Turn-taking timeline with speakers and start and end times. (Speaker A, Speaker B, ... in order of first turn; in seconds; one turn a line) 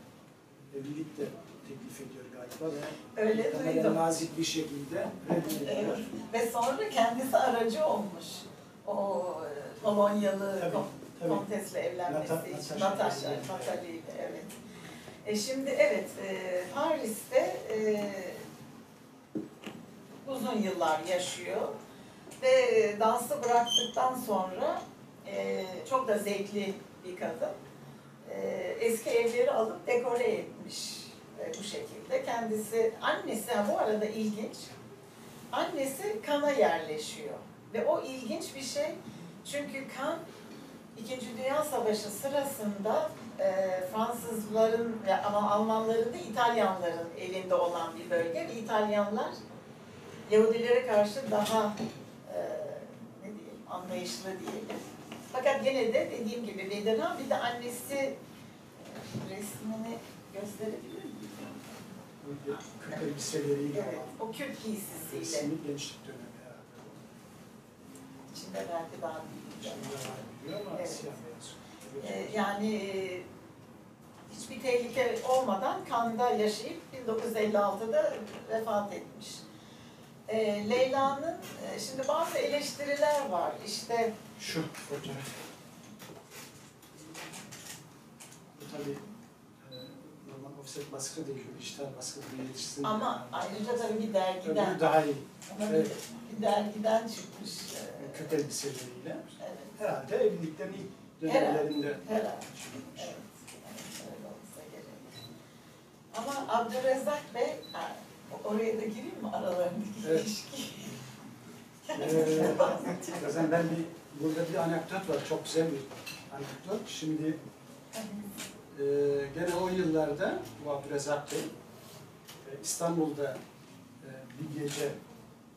Speaker A: 0.7-6.1
Speaker B: 3.1-4.0
Speaker B: 5.5-14.5
Speaker A: 10.6-11.4
Speaker A: 12.1-13.8
Speaker B: 15.2-18.4
Speaker B: 20.2-21.8
Speaker B: 22.4-27.5
Speaker B: 28.3-34.7
Speaker B: 35.5-40.2
Speaker B: 41.0-49.4
Speaker B: 50.3-51.7
Speaker B: 52.3-54.8
Speaker B: 55.3-58.1
Speaker B: 58.9-61.8
Speaker A: 62.2-64.2
Speaker B: 63.7-65.5
Speaker A: 64.9-67.1
Speaker B: 68.3-70.1
Speaker A: 69.6-72.5
Speaker B: 70.8-71.1
Speaker B: 72.0-73.2
Speaker B: 74.3-79.4
Speaker B: 80.3-84.1
Speaker A: 84.4-85.4
Speaker A: 88.5-89.0
Speaker A: 89.6-93.8
Speaker B: 92.8-94.8
Speaker A: 94.4-95.9
Speaker B: 95.5-98.3
Speaker A: 98.0-103.2
Speaker B: 99.4-99.7
Speaker B: 101.3-105.2
Speaker B: 106.1-110.9
Speaker A: 110.0-110.3
Speaker B: 111.9-113.4
Speaker A: 111.9-117.4
Speaker A: 118.7-121.5
Speaker A: 122.4-123.4
Speaker A: 124.0-125.0